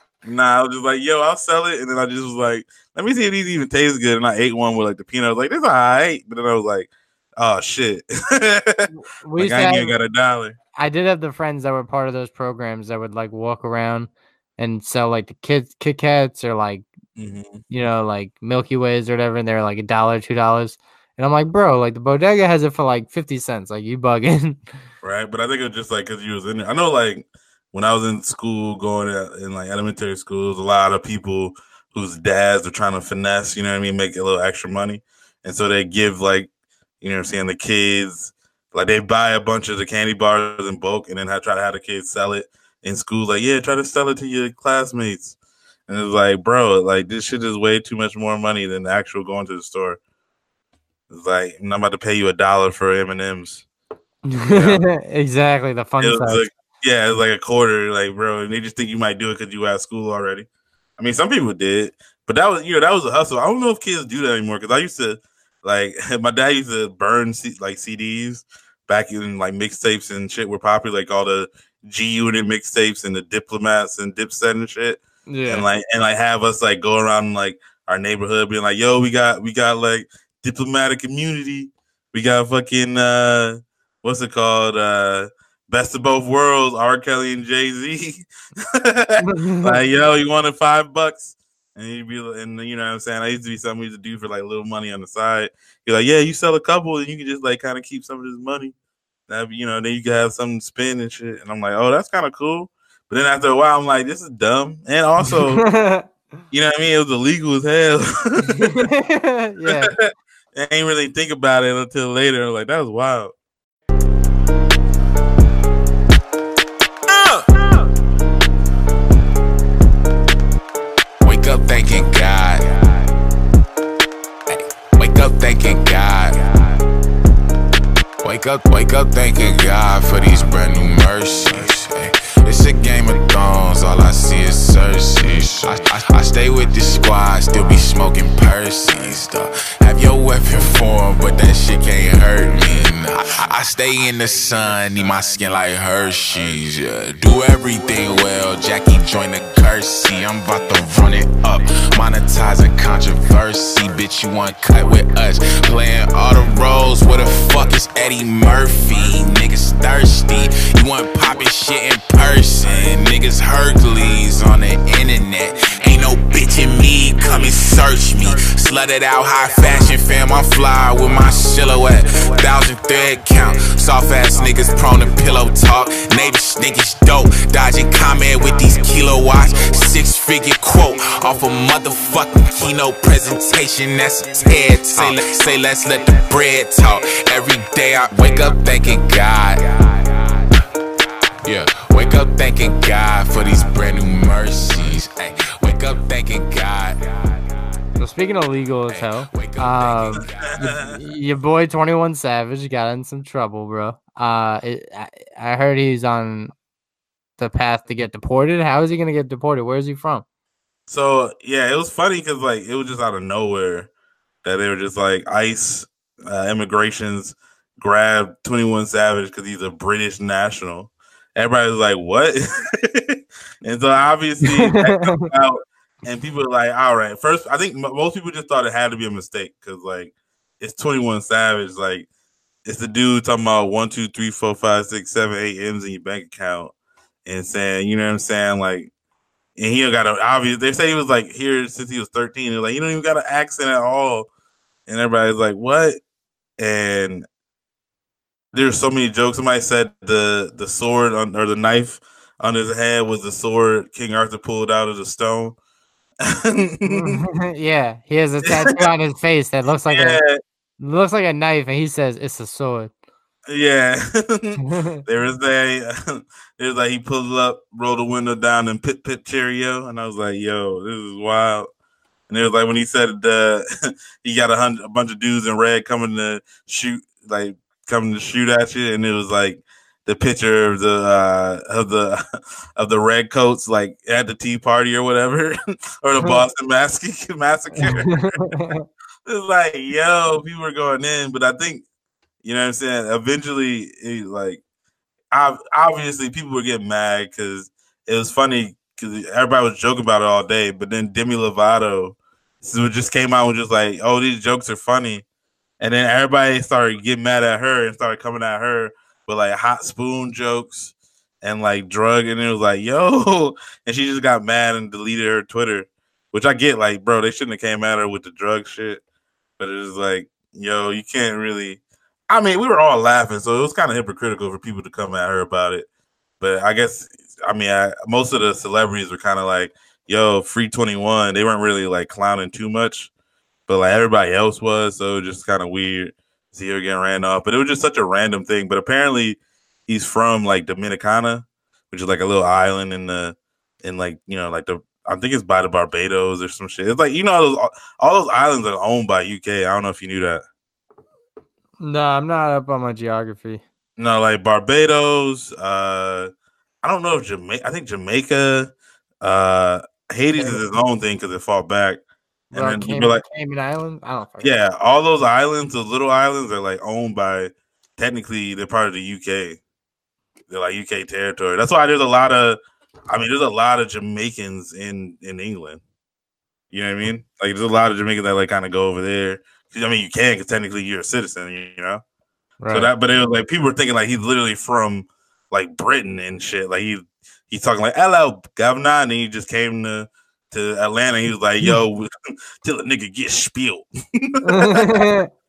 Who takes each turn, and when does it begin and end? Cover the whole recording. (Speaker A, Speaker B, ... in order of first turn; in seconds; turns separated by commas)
Speaker A: 0.2-10.6, Speaker B: 8.9-9.9, Speaker B: 10.7-16.9, Speaker A: 17.2-17.6, Speaker B: 17.7-24.6, Speaker A: 25.0-36.5, Speaker A: 37.0-45.3, Speaker A: 45.9-50.0, Speaker A: 51.1-53.6, Speaker B: 54.3-56.5, Speaker A: 54.5-54.8, Speaker A: 56.0-60.5, Speaker A: 61.0-98.7, Speaker B: 75.3-75.7, Speaker B: 89.2-89.8, Speaker A: 99.3-105.6, Speaker B: 105.2-106.1, Speaker A: 106.5-108.9, Speaker B: 108.5-109.9, Speaker A: 109.7-113.3, Speaker A: 117.1-117.5, Speaker C: 121.2-122.8, Speaker C: 124.5-126.4, Speaker C: 128.2-189.7, Speaker C: 191.4-197.0, Speaker B: 198.0-206.5, Speaker C: 198.9-200.6, Speaker A: 200.5-200.9, Speaker B: 207.4-210.2, Speaker A: 210.9-213.9, Speaker A: 214.4-232.1, Speaker B: 224.4-225.3, Speaker A: 232.6-236.7, Speaker A: 237.2-238.9, Speaker A: 239.6-244.3, Speaker A: 244.9-246.0, Speaker A: 246.6-247.3, Speaker A: 248.5-255.6, Speaker A: 256.2-257.2, Speaker B: 256.9-260.2, Speaker A: 258.4-258.9, Speaker A: 259.9-260.4, Speaker B: 260.8-262.9, Speaker A: 263.5-271.7, Speaker B: 264.6-265.0, Speaker A: 272.3-282.2, Speaker A: 282.8-288.6, Speaker B: 287.8-288.8, Speaker A: 289.2-291.8, Speaker A: 292.4-294.6, Speaker A: 295.3-305.2, Speaker A: 305.8-319.0, Speaker A: 319.6-325.9, Speaker A: 326.4-333.1, Speaker A: 333.7-350.4, Speaker B: 351.8-353.6, Speaker A: 354.0-356.3, Speaker A: 356.8-362.0, Speaker B: 360.4-360.6, Speaker A: 362.5-363.2, Speaker B: 362.5-364.5, Speaker A: 364.4-369.6, Speaker A: 370.5-375.8, Speaker A: 376.7-382.0, Speaker B: 382.6-382.9, Speaker A: 382.7-392.1, Speaker A: 392.6-395.1, Speaker B: 394.4-395.3